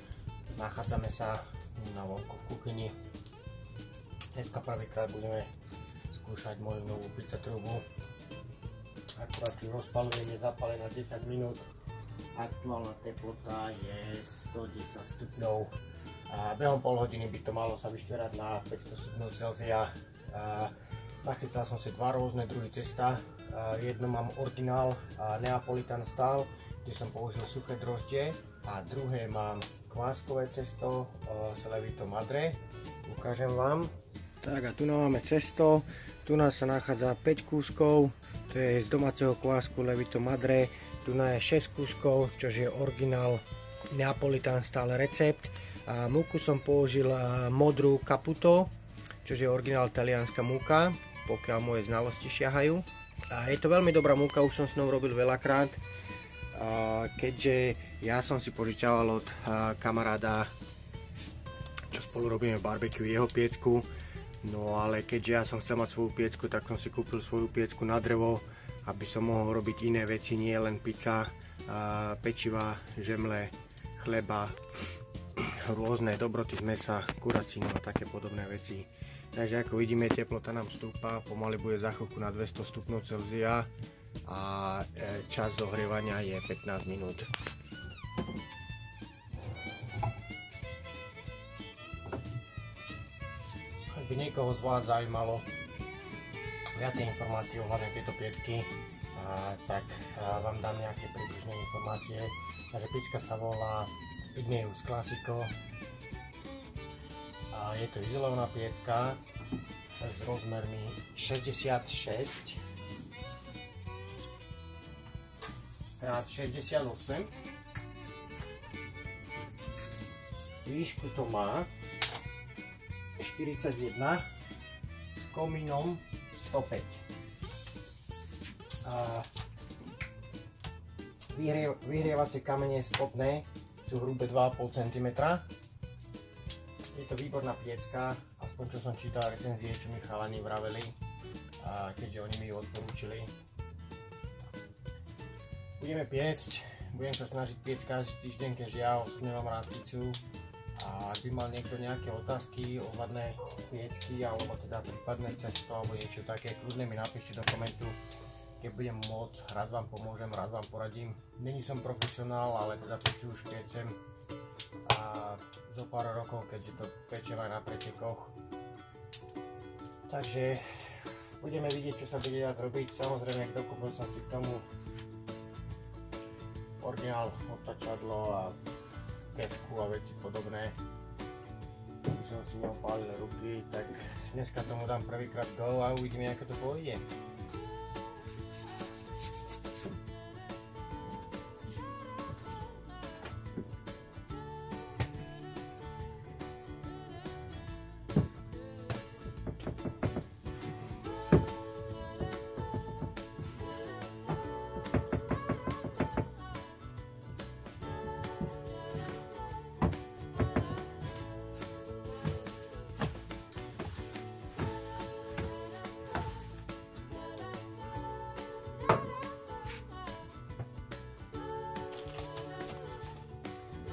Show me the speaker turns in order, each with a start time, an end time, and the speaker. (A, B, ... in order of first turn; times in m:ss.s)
0:00.6-0:02.9 A
0:04.4-0:05.5 A
0:06.1-0:07.8 A
0:09.2-0:11.7 A
0:12.4-0:15.7 A
0:16.3-0:48.7 A
0:49.2-0:55.8 A
0:56.5-1:00.5 A
1:01.9-1:03.9 A
1:04.4-1:14.6 A
1:15.4-1:23.7 A
1:24.2-1:27.3 A
1:33.8-1:35.4 A
1:36.8-1:45.5 A
1:47.5-1:49.2 A
1:50.0-1:52.6 A
1:56.0-1:57.3 A
2:00.6-2:01.7 A
2:03.2-2:04.2 A
2:05.2-2:07.0 A
2:08.8-2:09.3 A
2:11.3-2:15.5 A
2:16.9-2:21.0 A
2:21.6-2:23.3 A
2:25.8-2:30.2 A
2:30.8-2:38.0 A
2:38.6-2:44.0 A
2:44.8-2:48.3 A
2:50.1-2:54.6 A
2:56.8-3:00.8 A
3:02.1-3:07.0 A